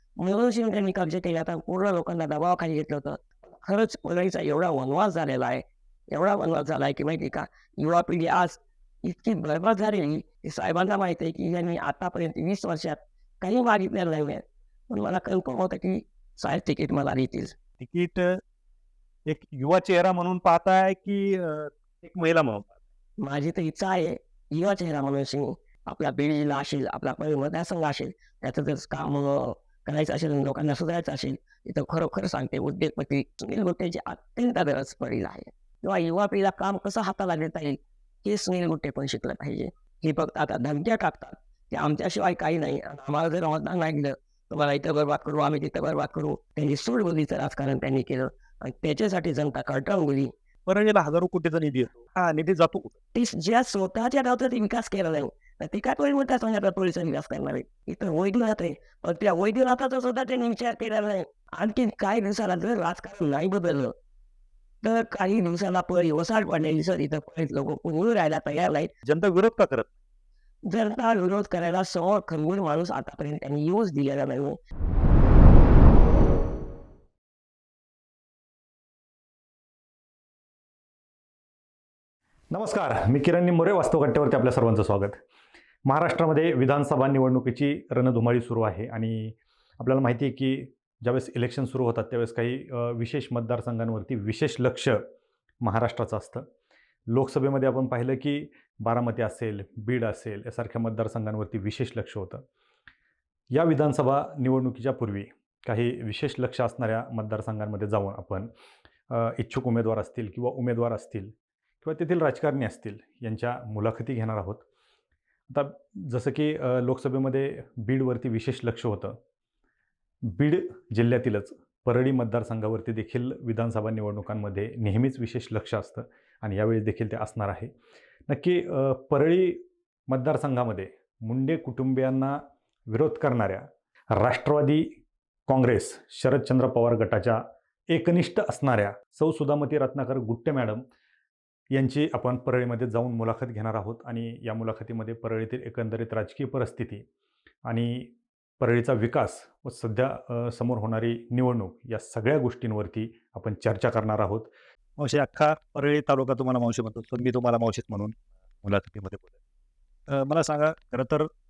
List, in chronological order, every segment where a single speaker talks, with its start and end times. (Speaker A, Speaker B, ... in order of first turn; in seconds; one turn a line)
Speaker A: 0.2-17.5
Speaker B: 17.8-18.4
Speaker B: 19.3-22.7
Speaker A: 23.2-50.3
Speaker B: 50.6-52.9
Speaker A: 53.1-63.9
Speaker A: 64.8-68.9
Speaker B: 69.0-69.9
Speaker A: 70.7-74.6
Speaker C: 82.5-85.2
Speaker C: 85.8-95.0
Speaker C: 95.6-96.4
Speaker C: 97.1-102.4
Speaker C: 103.5-108.5
Speaker C: 109.1-114.6
Speaker C: 115.5-119.2
Speaker C: 120.3-127.7
Speaker C: 128.3-134.9
Speaker C: 135.5-140.8
Speaker C: 141.7-147.0
Speaker C: 147.6-154.5
Speaker B: 155.0-159.3
Speaker B: 160.1-161.3